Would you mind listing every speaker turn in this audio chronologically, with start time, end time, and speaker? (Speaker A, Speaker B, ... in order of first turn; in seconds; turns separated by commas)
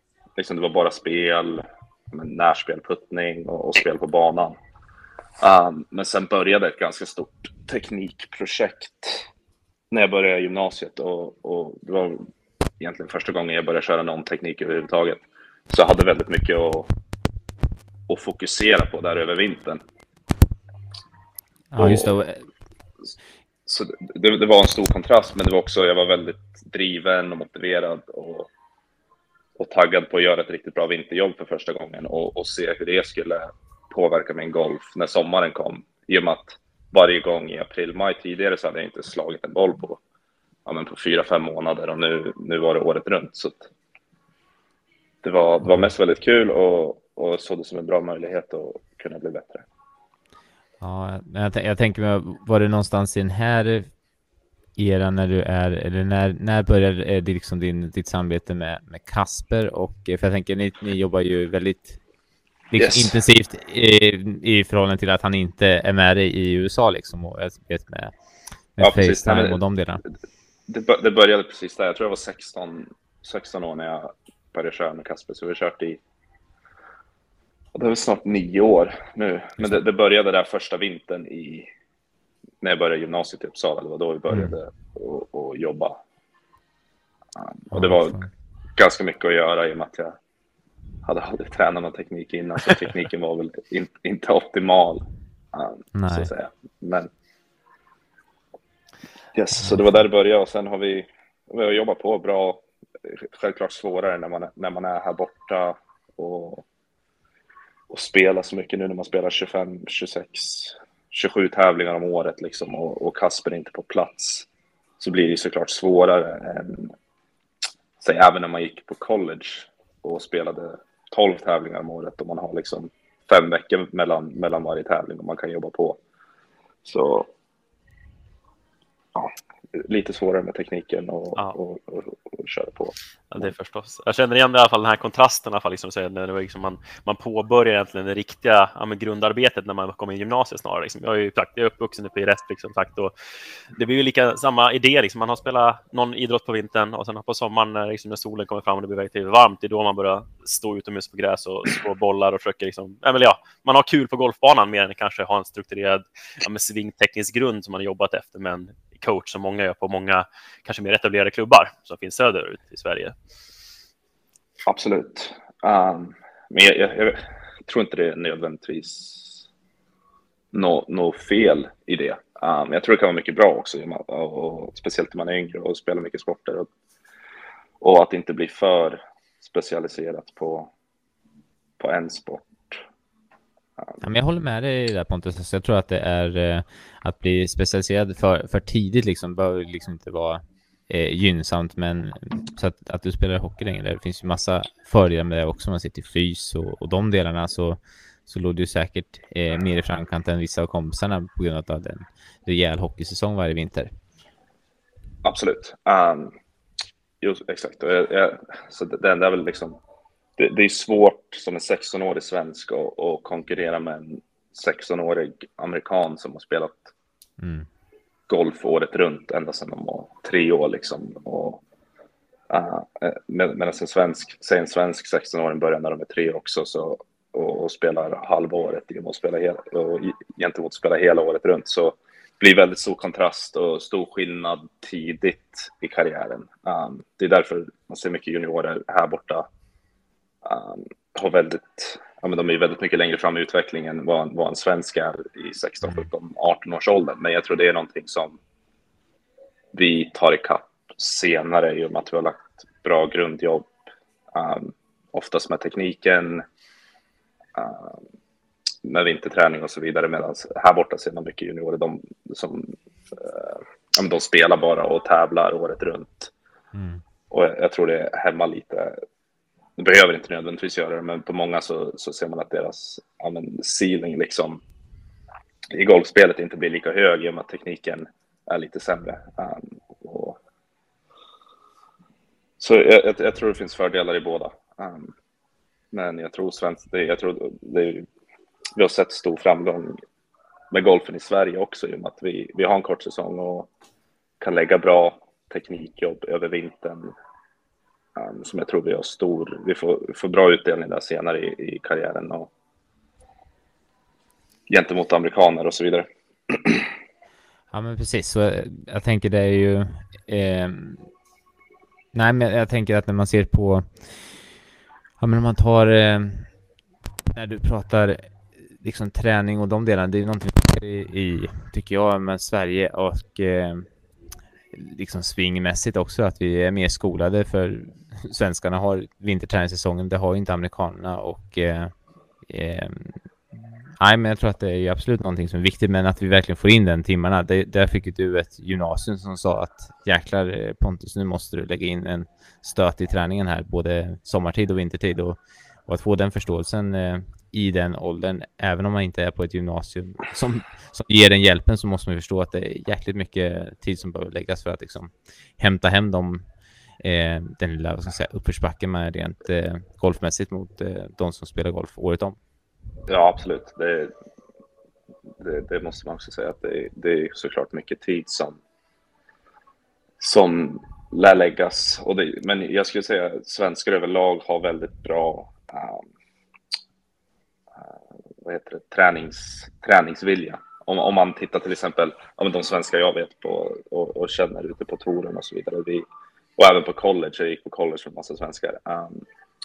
Speaker A: 0.4-4.5, Speaker A: 5.4-9.3, Speaker A: 9.9-12.3, Speaker A: 12.8-16.9, Speaker A: 18.1-19.8, Speaker B: 21.7-22.4, Speaker A: 21.8-22.1, Speaker A: 23.7-28.5, Speaker A: 29.6-40.0, Speaker A: 40.6-43.7, Speaker A: 45.2-49.6, Speaker B: 50.8-53.9, Speaker B: 54.8-62.0, Speaker B: 62.7-68.1, Speaker A: 62.8-63.1, Speaker B: 68.7-70.0, Speaker A: 68.8-69.6, Speaker A: 70.7-76.0, Speaker A: 77.7-81.7, Speaker A: 82.6-86.0, Speaker A: 87.4-88.2, Speaker B: 87.7-88.3, Speaker A: 88.8-90.2, Speaker A: 91.0-97.1, Speaker B: 95.9-96.3, Speaker A: 99.3-106.6, Speaker B: 99.6-100.0, Speaker A: 107.9-114.5, Speaker A: 115.0-116.9, Speaker A: 118.0-126.0, Speaker A: 126.8-127.3, Speaker A: 129.1-133.5, Speaker C: 133.3-143.1, Speaker C: 143.7-163.1, Speaker A: 164.7-169.4, Speaker A: 170.5-176.7, Speaker A: 177.8-180.7, Speaker A: 181.8-182.8, Speaker B: 184.0-203.9, Speaker A: 205.2-206.3, Speaker A: 207.2-209.8, Speaker A: 210.4-216.9, Speaker B: 217.4-217.7, Speaker A: 218.3-221.6, Speaker A: 222.5-239.4, Speaker A: 240.4-248.4, Speaker A: 249.7-253.7, Speaker A: 254.3-256.4, Speaker A: 257.6-258.0, Speaker A: 258.8-266.3, Speaker B: 266.7-267.0, Speaker A: 267.3-268.9, Speaker A: 269.8-274.6, Speaker A: 275.7-280.4, Speaker A: 282.6-285.1, Speaker A: 285.9-288.1, Speaker A: 288.8-290.0, Speaker A: 290.7-293.7, Speaker A: 294.4-297.1, Speaker A: 298.1-302.5, Speaker A: 304.7-306.9, Speaker B: 307.7-311.0, Speaker B: 312.1-314.2, Speaker B: 315.2-316.5, Speaker B: 317.3-323.9, Speaker B: 324.7-331.9, Speaker B: 332.5-333.2, Speaker B: 334.0-356.4, Speaker B: 357.0-362.4, Speaker A: 363.1-364.1, Speaker A: 365.4-368.6, Speaker A: 370.2-376.0, Speaker A: 378.4-386.0, Speaker A: 386.6-389.2